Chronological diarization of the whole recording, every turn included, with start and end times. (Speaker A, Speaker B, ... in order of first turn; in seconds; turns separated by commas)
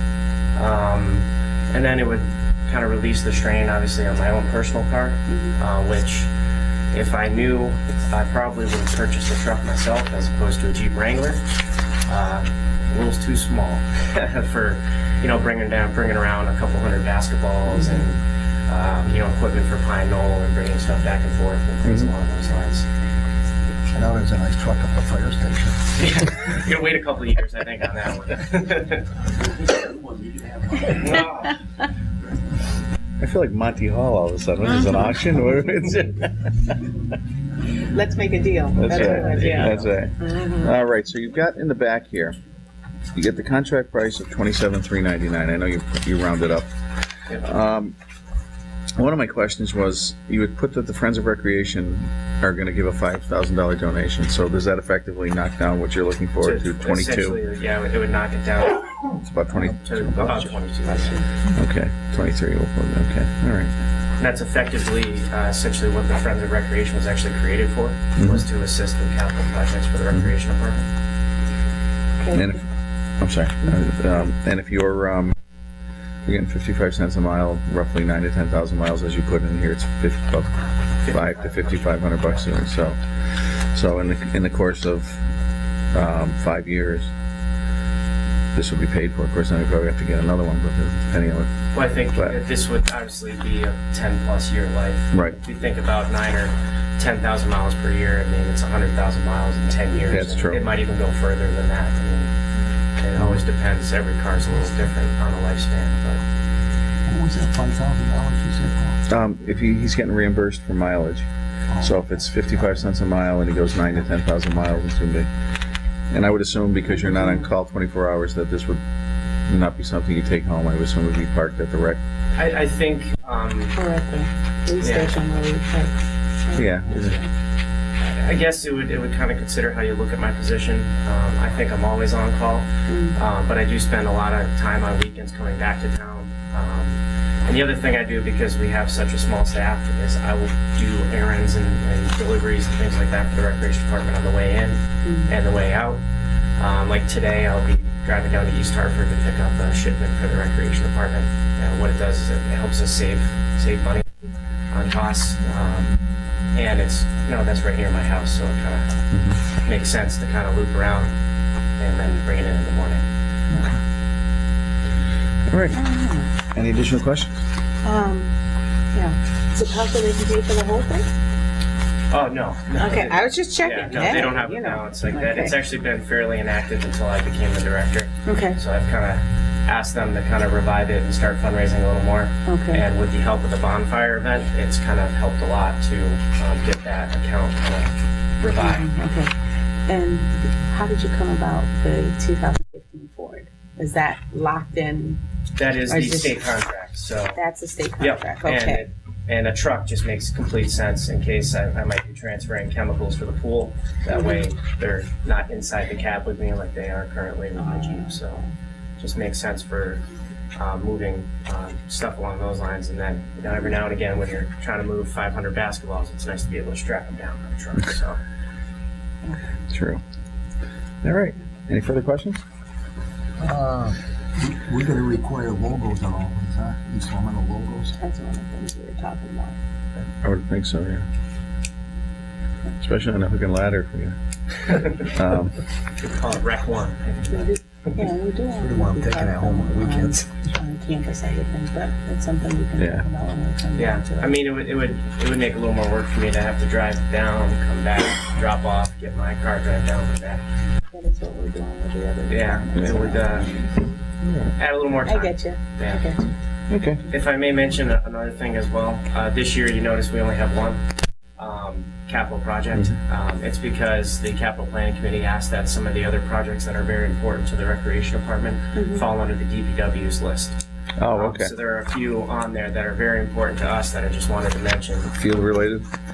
Speaker A: 0.6-6.3, Speaker B: 5.3-5.5, Speaker A: 6.9-11.4, Speaker A: 12.1-22.9, Speaker B: 17.7-18.0, Speaker C: 21.8-22.1, Speaker D: 23.9-25.8, Speaker A: 26.0-29.1, Speaker D: 29.7-31.3, Speaker A: 31.0-31.5, Speaker C: 33.2-36.7, Speaker B: 37.9-40.8, Speaker C: 38.8-42.4, Speaker A: 38.9-39.8, Speaker C: 43.1-46.7, Speaker C: 47.4-48.0, Speaker C: 49.0-57.4, Speaker A: 56.4-58.9, Speaker C: 59.2-60.5, Speaker A: 59.5-61.2, Speaker B: 60.9-61.3, Speaker C: 61.5-63.7, Speaker A: 64.2-70.9, Speaker C: 68.2-68.5, Speaker B: 72.2-72.6, Speaker C: 72.3-72.6, Speaker C: 73.2-75.3, Speaker C: 76.3-85.2, Speaker A: 81.0-81.8, Speaker C: 85.9-87.1, Speaker C: 88.5-91.5, Speaker A: 91.7-102.3, Speaker C: 95.1-95.4, Speaker C: 100.1-100.6, Speaker A: 103.0-106.2, Speaker D: 107.1-109.0, Speaker C: 109.1-111.3, Speaker C: 111.8-115.3, Speaker C: 116.1-118.8, Speaker B: 117.0-117.5, Speaker C: 119.5-122.0, Speaker A: 122.3-123.8, Speaker B: 123.8-126.0, Speaker A: 124.8-125.2, Speaker B: 126.5-127.3, Speaker C: 126.5-127.2, Speaker A: 128.0-146.0, Speaker B: 132.9-133.2, Speaker B: 145.1-145.3, Speaker A: 146.6-154.1, Speaker A: 154.7-156.0, Speaker A: 156.5-158.9, Speaker C: 159.1-159.4, Speaker A: 159.6-161.1, Speaker A: 161.8-163.1, Speaker C: 165.5-165.8, Speaker B: 165.7-166.3, Speaker C: 166.6-167.3, Speaker B: 167.8-168.3, Speaker B: 168.9-171.1, Speaker A: 172.1-188.9, Speaker B: 172.8-175.6, Speaker B: 178.2-178.6, Speaker B: 182.5-182.8, Speaker B: 188.6-189.3, Speaker B: 189.9-195.2, Speaker A: 195.6-197.4, Speaker B: 195.9-196.4, Speaker B: 197.3-198.8, Speaker A: 198.0-208.4, Speaker B: 204.1-204.5, Speaker B: 207.6-208.5, Speaker A: 209.0-210.0, Speaker A: 210.6-218.2, Speaker C: 219.7-220.0, Speaker C: 221.0-222.4, Speaker D: 223.4-227.9, Speaker B: 227.9-229.6, Speaker C: 230.2-231.1, Speaker C: 232.8-234.2, Speaker C: 234.7-235.6, Speaker A: 234.7-235.1, Speaker A: 236.0-237.6, Speaker B: 237.3-244.4, Speaker D: 238.5-240.6, Speaker C: 242.8-243.1, Speaker A: 243.8-250.4, Speaker B: 250.9-253.7, Speaker A: 252.3-253.5, Speaker C: 252.8-253.1, Speaker C: 254.2-254.5, Speaker A: 254.6-256.1, Speaker B: 255.1-256.3, Speaker C: 256.7-257.0, Speaker A: 257.1-260.9, Speaker A: 261.4-270.6, Speaker B: 268.8-269.1, Speaker C: 271.0-271.5, Speaker A: 271.1-275.1, Speaker C: 275.1-275.9